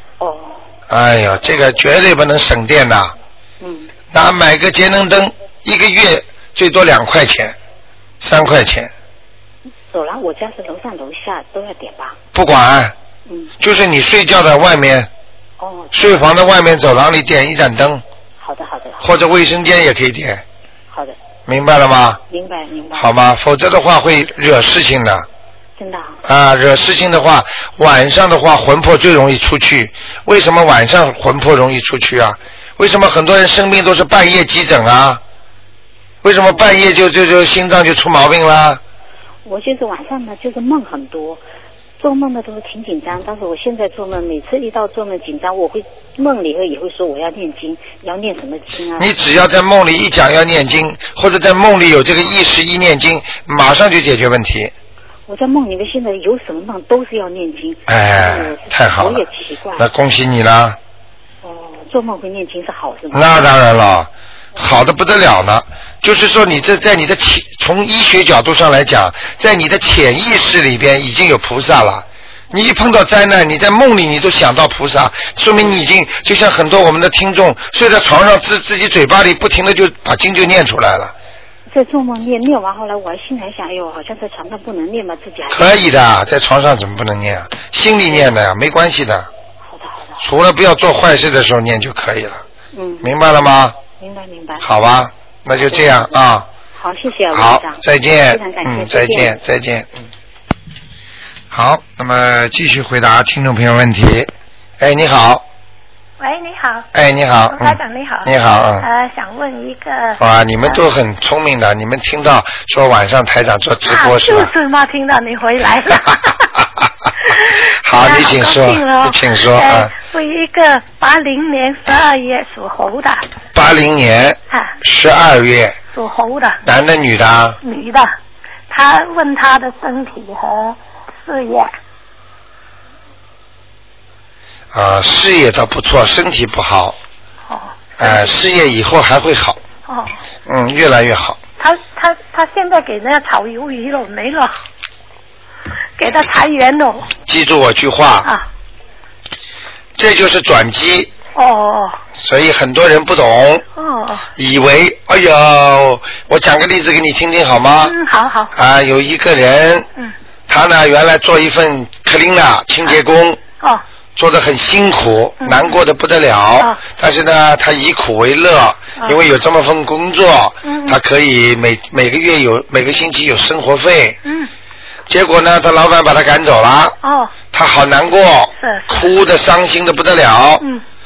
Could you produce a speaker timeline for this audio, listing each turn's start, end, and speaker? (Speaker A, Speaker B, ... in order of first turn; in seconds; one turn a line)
Speaker A: 0.2-0.6
Speaker B: 0.9-3.1
Speaker A: 3.6-3.9
Speaker B: 4.1-7.5
Speaker B: 8.2-8.9
Speaker A: 9.9-12.2
Speaker B: 12.3-12.9
Speaker A: 13.3-13.5
Speaker B: 13.6-15.1
Speaker A: 15.6-16.0
Speaker B: 15.9-18.0
Speaker A: 18.4-19.0
Speaker B: 19.0-20.4
Speaker A: 20.9-21.2
Speaker B: 21.5-22.2
Speaker A: 22.3-23.1
Speaker B: 22.9-25.2
Speaker A: 25.8-26.2
Speaker B: 26.2-35.2
Speaker B: 36.2-38.8
Speaker A: 36.5-36.8
Speaker A: 39.4-41.4
Speaker A: 42.0-49.1
Speaker B: 49.0-54.7
Speaker A: 55.3-59.9
Speaker B: 57.9-59.2
Speaker B: 59.8-60.8
Speaker A: 61.4-63.4
Speaker B: 63.1-81.1
Speaker A: 81.7-85.7
Speaker B: 85.5-89.3
Speaker A: 89.6-90.2
Speaker B: 90.2-92.4
Speaker A: 92.7-93.1
Speaker B: 93.0-93.8
Speaker A: 94.0-94.7
Speaker B: 94.6-96.5
Speaker A: 95.7-96.0
Speaker A: 96.7-99.3
Speaker B: 97.3-100.0
Speaker B: 101.5-105.4
Speaker C: 106.2-106.9
Speaker B: 106.9-108.9
Speaker C: 107.5-110.8
Speaker B: 110.2-114.5
Speaker C: 113.8-116.5
Speaker C: 117.2-123.2
Speaker B: 117.7-119.9
Speaker B: 123.5-125.8
Speaker C: 124.5-124.8
Speaker C: 125.9-126.6
Speaker B: 126.6-127.6
Speaker C: 127.6-128.1
Speaker C: 128.7-131.7
Speaker B: 134.7-137.0
Speaker C: 137.5-138.3
Speaker B: 138.0-139.6
Speaker C: 139.9-140.2
Speaker B: 140.4-141.4
Speaker C: 141.6-144.5
Speaker C: 146.0-147.1
Speaker B: 147.2-148.3
Speaker B: 150.0-151.1
Speaker C: 151.3-152.0
Speaker B: 152.1-153.6
Speaker C: 153.8-154.3
Speaker B: 154.3-157.9
Speaker C: 157.8-158.5
Speaker B: 158.5-159.9
Speaker B: 160.5-163.4
Speaker B: 164.2-174.2
Speaker C: 165.4-165.8
Speaker C: 170.6-171.0
Speaker C: 174.2-174.5
Speaker B: 175.1-176.9
Speaker C: 177.0-177.3
Speaker B: 177.5-180.6
Speaker C: 178.6-179.1